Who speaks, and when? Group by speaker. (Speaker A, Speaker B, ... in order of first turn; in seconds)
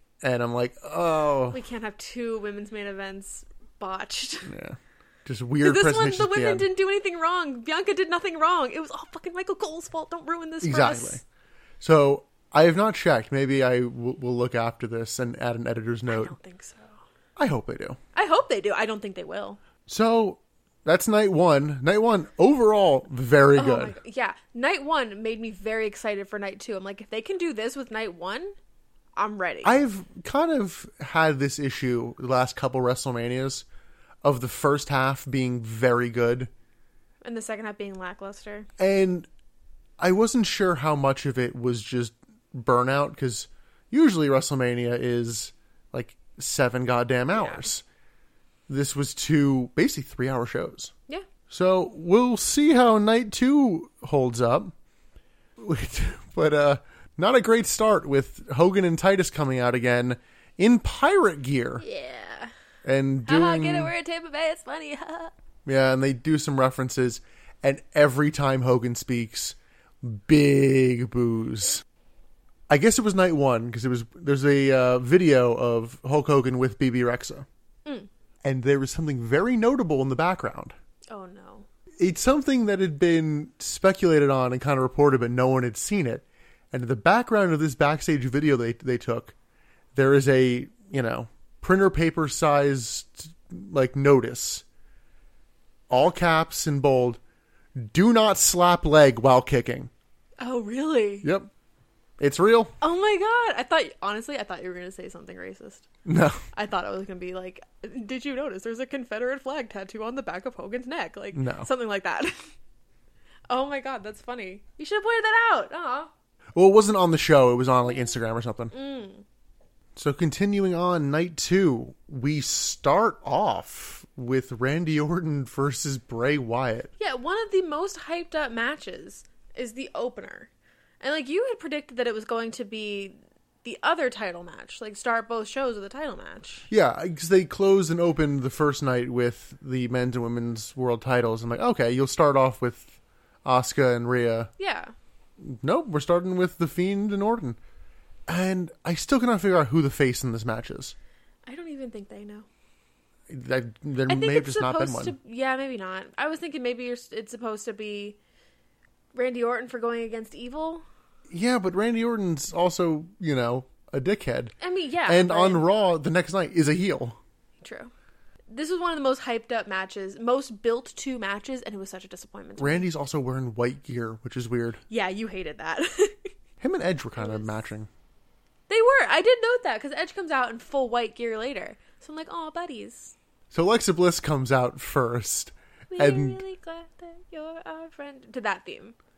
Speaker A: 0.2-1.6, 4.5-6.7, 10.6-11.2, 11.8-16.3, 17.4-18.0, 19.9-23.9, 29.6-33.6, 34.2-36.5, 38.8-39.3, 40.0-47.8, 48.7-50.9, 51.5-54.7, 55.6-61.8, 62.8-63.9, 65.6-71.8, 72.7-77.5, 78.4-80.7, 82.0-89.3, 90.0-94.6, 95.9-97.2, 97.8-99.9, 101.2-101.5, 102.2-102.7, 106.0-106.4, 111.3-111.7, 116.5-118.7, 120.0-126.9, 136.7-144.5, 145.4-147.6, 148.3-150.9, 153.3-155.2, 161.3-164.5, 165.1-167.2, 172.6-174.8, 176.6-177.9, 183.5-186.4
Speaker B: 1.5-4.5, 5.6-11.2, 16.1-17.0, 18.1-19.6, 23.6-28.6, 29.2-29.7, 37.2-38.7, 47.3-47.7, 61.8-62.5, 63.2-65.3, 81.1-81.7, 100.4-101.3, 102.8-105.9, 106.5-112.5, 113.5-116.1, 118.7-119.2, 127.0-136.7, 144.6-144.9, 151.5-152.4, 154.1-158.2, 159.1-160.8, 164.6-165.6, 167.6-167.9, 168.5-172.9, 174.9-176.3, 177.2-177.5, 178.7-183.1, 185.9-188.9